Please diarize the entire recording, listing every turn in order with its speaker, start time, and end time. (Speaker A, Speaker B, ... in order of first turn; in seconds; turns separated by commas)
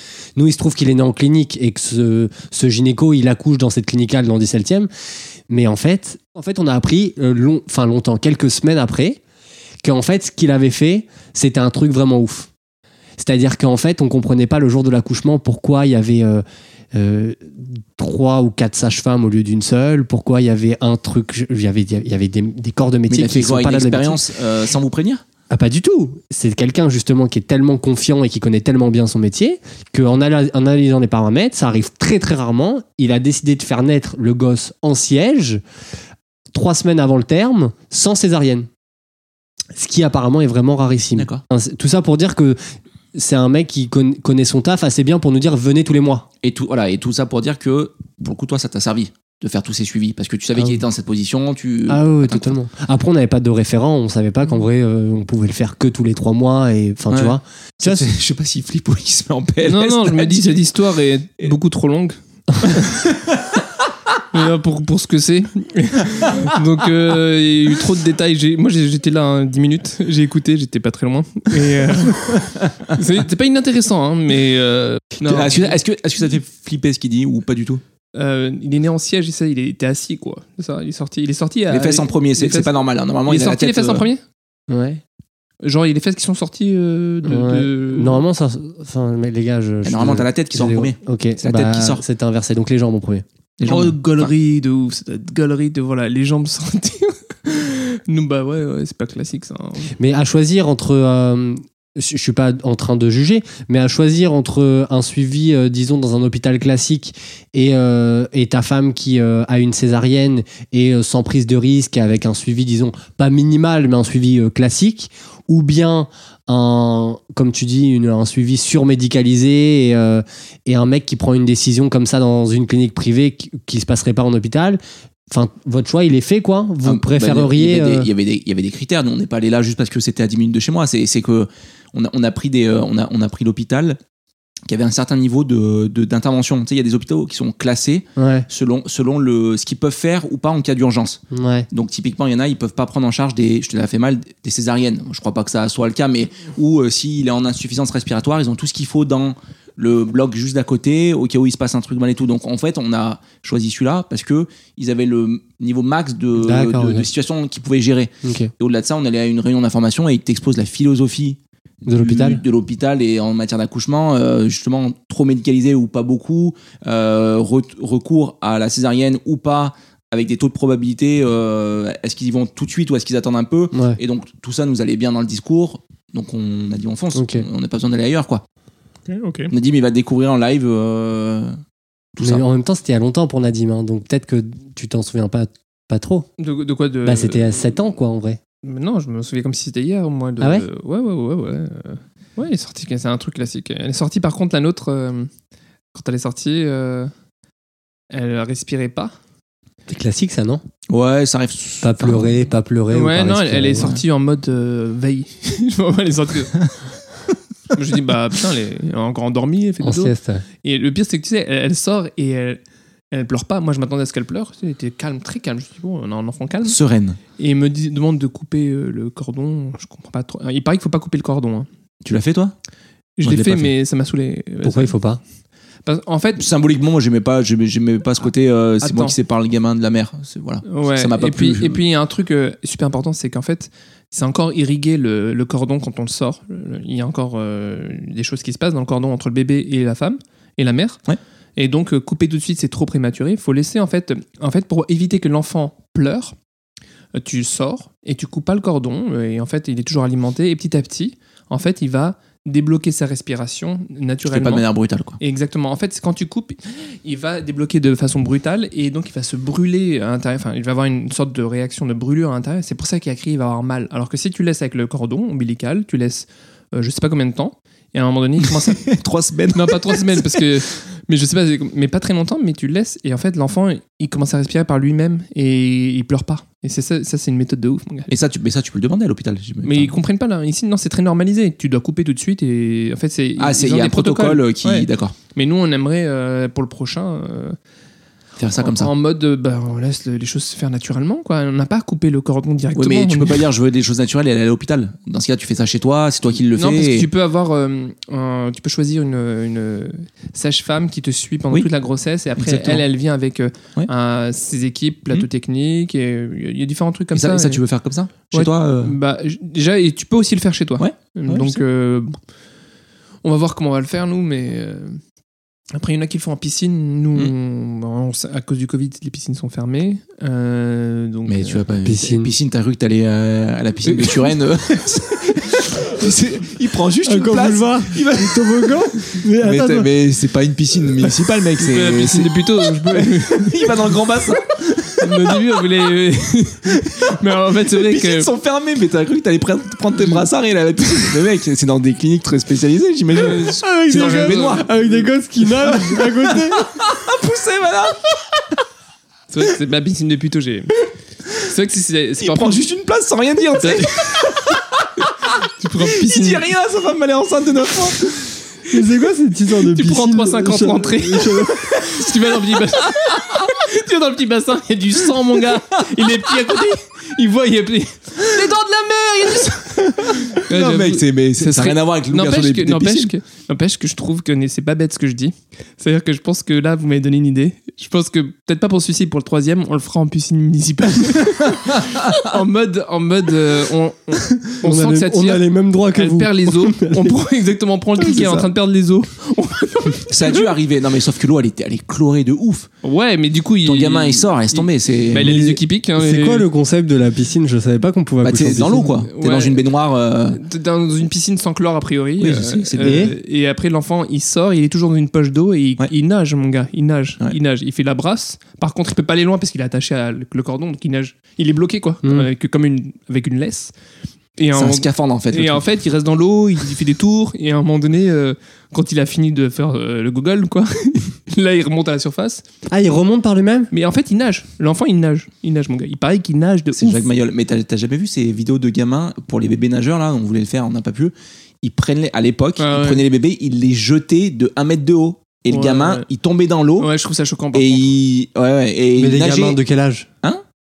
Speaker A: 0.4-4.9, Speaker A: 5.5-9.2, Speaker A: 9.8-12.5, Speaker A: 13.2-24.2, Speaker B: 23.1-25.2, Speaker A: 25.5-35.6, Speaker A: 36.5-38.7, Speaker A: 39.7-42.6, Speaker B: 41.2-41.4, Speaker A: 43.1-46.3, Speaker B: 46.4-52.6, Speaker A: 50.6-50.8, Speaker A: 51.9-58.1, Speaker B: 57.1-60.7, Speaker C: 59.6-63.0, Speaker B: 62.9-63.5, Speaker C: 64.3-75.8, Speaker B: 72.1-72.9, Speaker B: 75.2-77.8, Speaker C: 78.2-84.2, Speaker B: 81.7-84.1, Speaker A: 84.7-85.0, Speaker C: 85.6-88.2, Speaker A: 87.2-93.2, Speaker B: 89.8-92.0, Speaker B: 93.6-94.3, Speaker C: 93.7-99.9, Speaker A: 100.0-128.1, Speaker B: 126.8-134.0, Speaker B: 134.7-141.2, Speaker A: 138.2-138.5, Speaker A: 141.3-141.7, Speaker B: 141.7-178.4, Speaker A: 156.4-157.1, Speaker A: 158.2-158.5, Speaker A: 161.9-162.4, Speaker A: 173.7-174.0, Speaker A: 177.1-177.5, Speaker C: 179.1-179.5, Speaker B: 179.5-181.6, Speaker B: 182.2-182.4, Speaker A: 182.2-186.3, Speaker C: 186.4-187.7, Speaker A: 187.1-188.4, Speaker C: 188.6-195.3, Speaker A: 190.4-190.7, Speaker C: 195.9-197.1, Speaker C: 198.1-199.2, Speaker A: 199.9-200.6, Speaker B: 200.9-202.4, Speaker A: 201.8-203.9, Speaker C: 202.9-206.7, Speaker B: 203.8-204.0, Speaker C: 207.7-212.6, Speaker A: 209.8-210.4, Speaker C: 213.1-216.8, Speaker B: 216.6-217.2, Speaker C: 217.4-221.7, Speaker B: 222.0-222.5, Speaker C: 223.2-225.0, Speaker B: 223.2-223.7, Speaker A: 224.6-225.2, Speaker C: 225.8-226.4, Speaker B: 226.4-231.8, Speaker C: 228.8-229.2, Speaker C: 230.7-241.0, Speaker C: 241.6-246.3, Speaker C: 247.2-254.6, Speaker B: 254.3-255.2, Speaker C: 255.2-268.9, Speaker B: 268.7-270.4, Speaker C: 269.5-278.1, Speaker B: 278.1-279.9, Speaker C: 279.6-287.6, Speaker B: 283.4-285.1, Speaker B: 288.4-288.9, Speaker C: 288.6-293.4, Speaker B: 292.8-297.1, Speaker C: 296.6-307.6, Speaker B: 302.4-302.9, Speaker B: 307.1-308.9, Speaker C: 308.3-312.2, Speaker B: 310.8-311.6, Speaker C: 313.2-315.0, Speaker C: 315.7-321.6, Speaker B: 321.3-335.4, Speaker A: 321.8-322.3, Speaker A: 327.0-329.9, Speaker C: 331.6-333.7, Speaker C: 335.0-338.3, Speaker B: 336.7-337.0, Speaker B: 337.5-344.9, Speaker C: 343.1-344.7, Speaker A: 343.6-346.8, Speaker B: 345.6-348.1, Speaker C: 349.3-350.7, Speaker C: 351.4-352.6, Speaker B: 352.2-355.3, Speaker C: 353.6-354.2, Speaker C: 355.6-356.4, Speaker B: 355.8-358.2, Speaker A: 358.7-361.7, Speaker C: 359.7-390.5, Speaker B: 369.9-373.1, Speaker A: 384.6-387.2, Speaker B: 388.1-388.5, Speaker B: 390.1-392.7, Speaker C: 392.8-396.5, Speaker B: 393.6-395.4, Speaker A: 395.1-399.0, Speaker B: 398.2-400.4, Speaker C: 399.1-399.6, Speaker C: 400.3-413.7, Speaker B: 402.2-403.1, Speaker A: 402.8-403.1, Speaker A: 412.0-412.3, Speaker C: 414.4-422.4, Speaker B: 414.6-415.6, Speaker A: 422.7-423.7, Speaker C: 423.7-427.0, Speaker B: 426.8-436.9, Speaker C: 432.6-433.0, Speaker C: 435.5-436.1, Speaker C: 436.8-437.9, Speaker B: 437.5-439.6, Speaker A: 439.0-440.1